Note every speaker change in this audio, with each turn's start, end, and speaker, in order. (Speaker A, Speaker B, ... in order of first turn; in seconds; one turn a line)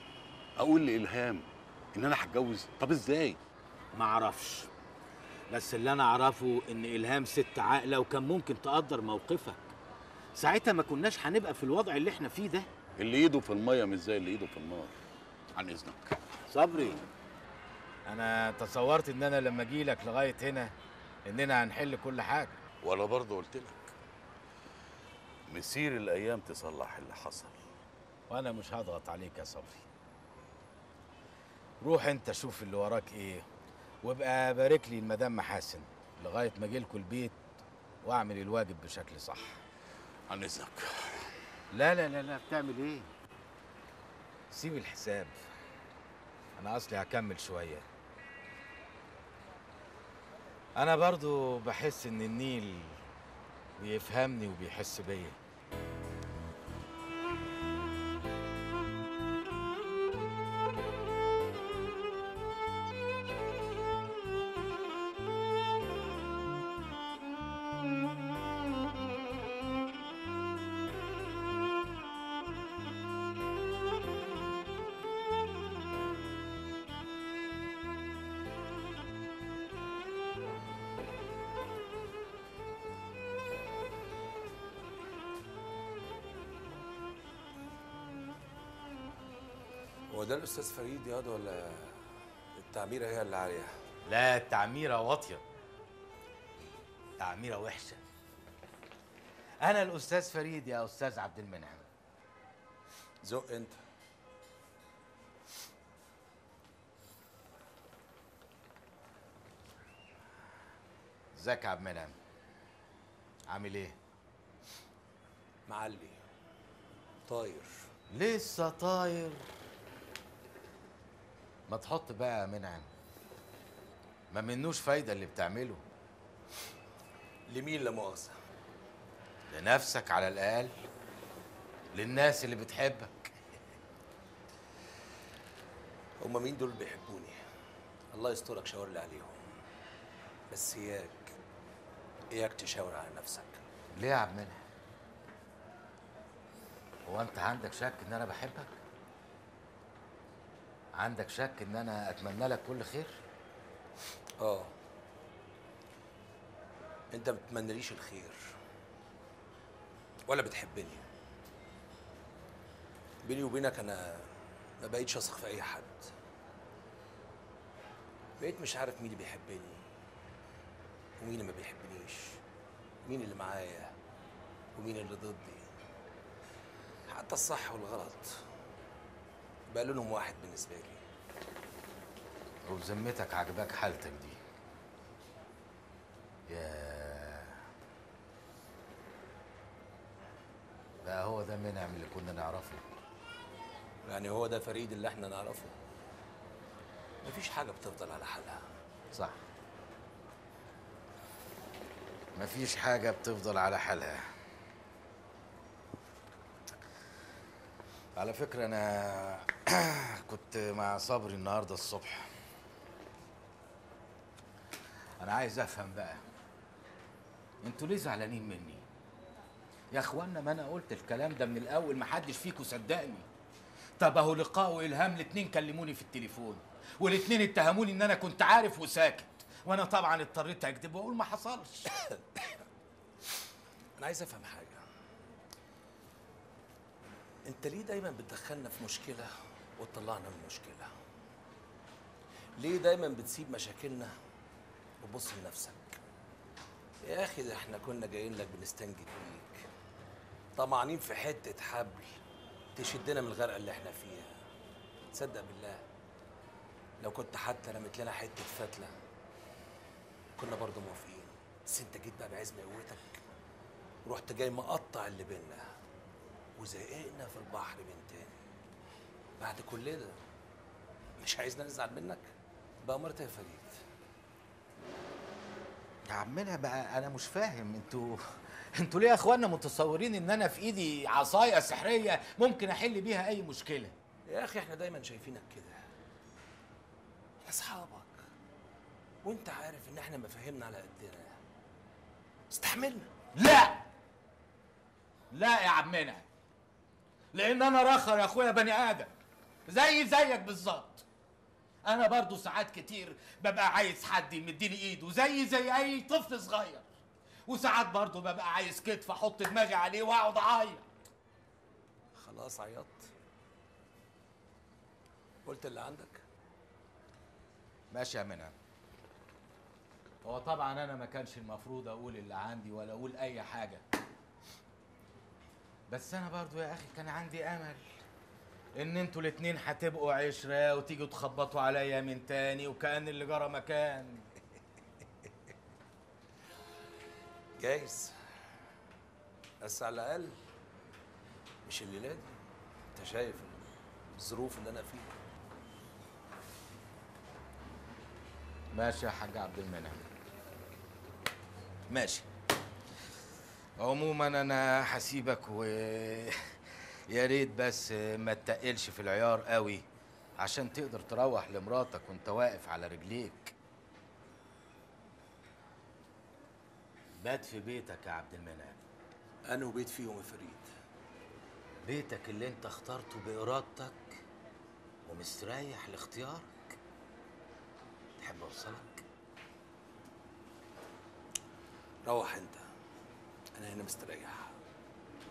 Speaker A: 0.6-3.4
Speaker B: 3.9-4.7
Speaker B: 5.5-9.7
Speaker B: 10.3-12.7
Speaker A: 13.0-14.9
Speaker A: 15.5-16.2
Speaker B: 16.5-17.0
Speaker B: 18.1-20.7
Speaker B: 21.2-22.6
Speaker A: 22.8-23.9
Speaker A: 25.5-27.6
Speaker B: 28.3-29.9
Speaker B: 31.8-33.5
Speaker B: 34.0-37.4
Speaker B: 38.0-39.6
Speaker A: 40.3-41.3
Speaker B: 41.7-43.1
Speaker B: 44.5-45.4
Speaker B: 46.6-47.9
Speaker B: 50.8-53.0
Speaker B: 53.8-55.4
Speaker C: 90.1-92.0
Speaker C: 92.5-93.7
Speaker B: 94.0-95.4
Speaker B: 97.2-98.0
Speaker B: 99.6-101.9
Speaker C: 103.2-103.8
Speaker B: 111.3-112.2
Speaker B: 113.5-114.0
Speaker C: 115.7-116.2
Speaker C: 117.3-117.7
Speaker B: 118.1-119.5
Speaker B: 121.7-122.9
Speaker B: 124.3-125.8
Speaker C: 127.5-128.3
Speaker B: 129.5-130.7
Speaker B: 131.9-133.3
Speaker C: 136.2-137.4
Speaker C: 138.1-139.5
Speaker C: 140.5-141.3
Speaker C: 142.3-143.6
Speaker B: 143.9-144.6
Speaker B: 147.1-148.8
Speaker B: 151.0-153.2
Speaker C: 154.4-154.7
Speaker C: 157.1-158.4
Speaker C: 160.3-161.1
Speaker C: 163.2-166.0
Speaker C: 168.4-169.8
Speaker C: 171.2-172.4
Speaker C: 173.0-173.9
Speaker C: 174.7-175.6
Speaker C: 177.1-178.4
Speaker C: 179.7-181.0
Speaker B: 182.7-184.4
Speaker B: 186.5-187.6
Speaker B: 191.0-192.8
Speaker C: 194.0-195.7
Speaker C: 197.2-198.6
Speaker B: 199.1-199.4
Speaker B: 202.3-204.2
Speaker B: 208.1-212.3
Speaker B: 215.2-216.2
Speaker B: 217.6-218.8
Speaker B: 219.9-223.3
Speaker B: 224.0-232.0
Speaker C: 234.0-234.8
Speaker C: 237.5-240.9
Speaker C: 242.6-244.1
Speaker C: 245.0-246.0
Speaker C: 247.1-249.7
Speaker C: 250.6-252.1
Speaker C: 252.8-254.3
Speaker C: 255.1-255.8
Speaker C: 257.0-258.9
Speaker C: 260.4-263.2
Speaker C: 264.0-265.7
Speaker C: 266.6-268.4
Speaker C: 269.4-270.2
Speaker C: 271.2-272.3
Speaker C: 272.8-273.8
Speaker B: 276.1-283.9
Speaker C: 284.3-285.8
Speaker C: 287.4-288.2
Speaker C: 289.2-291.4
Speaker C: 292.5-293.1
Speaker B: 293.3-293.8
Speaker B: 295.3-296.2
Speaker B: 297.3-299.1
Speaker B: 299.7-301.1
Speaker B: 301.9-306.9
Speaker B: 307.5-310.9
Speaker C: 312.2-313.1
Speaker C: 315.4-316.2
Speaker B: 317.9-318.5
Speaker B: 320.2-323.8
Speaker B: 325.9-327.9
Speaker B: 328.8-334.3
Speaker C: 337.6-338.1
Speaker C: 339.6-340.4
Speaker C: 341.6-342.4
Speaker C: 342.9-345.2
Speaker B: 348.7-350.1
Speaker B: 351.9-352.2
Speaker B: 353.8-359.8
Speaker B: 360.4-363.5
Speaker B: 367.2-368.8
Speaker C: 369.5-370.7
Speaker B: 371.8-374.2
Speaker B: 375.1-376.7
Speaker B: 378.2-379.0
Speaker C: 382.0-382.6
Speaker C: 383.5-384.5